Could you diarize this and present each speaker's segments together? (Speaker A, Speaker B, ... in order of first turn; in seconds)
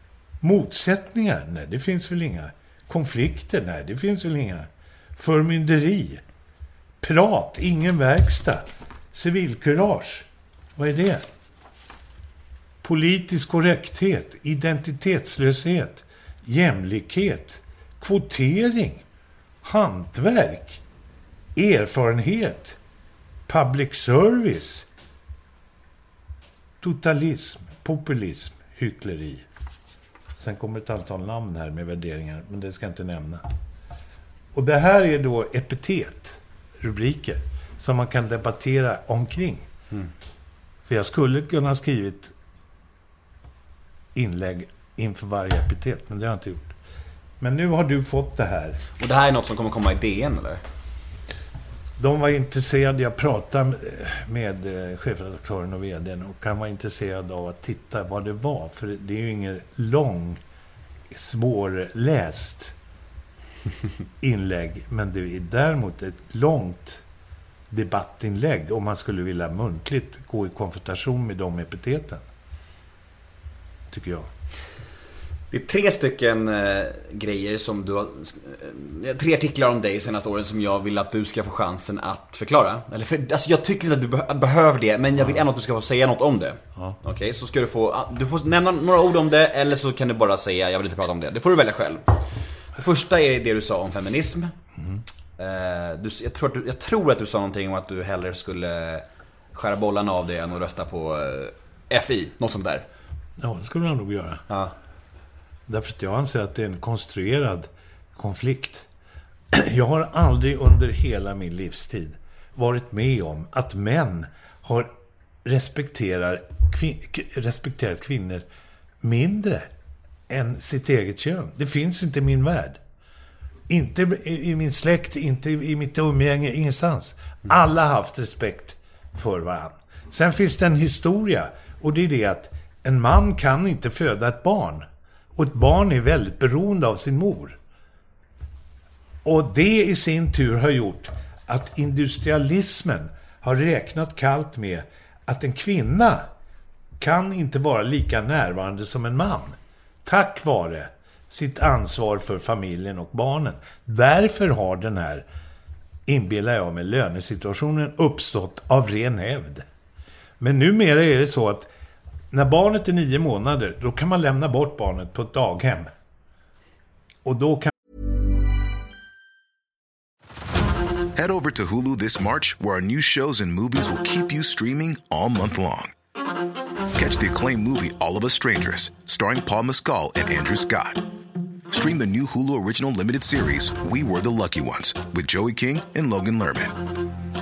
Speaker A: 0.4-6.2, 7.0-11.3, 12.8-19.1, 19.6-20.8, 21.6-22.8, 23.5-24.9, 26.8-29.4, 30.4-33.5, 34.5-39.7, 40.9-42.3, 44.1-46.8, 47.4-48.8, 52.0-60.4, 61.1-62.8, 64.2-67.0, 67.7-72.2, 73.9-74.3, 94.8-95.0, 103.4-104.5, 105.7-108.9, 109.5-118.5, 119.0-119.7, 120.3-122.8, 123.7-137.6, 139.2-146.3, 147.0-155.3, 156.1-159.7, 160.4-161.7, 162.3-165.9, 167.2-167.7
Speaker B: 49.0-50.6, 75.5-94.5, 95.4-102.9, 104.5-104.7
Speaker C: 171.1-175.9, 176.9-181.1, 181.7-186.8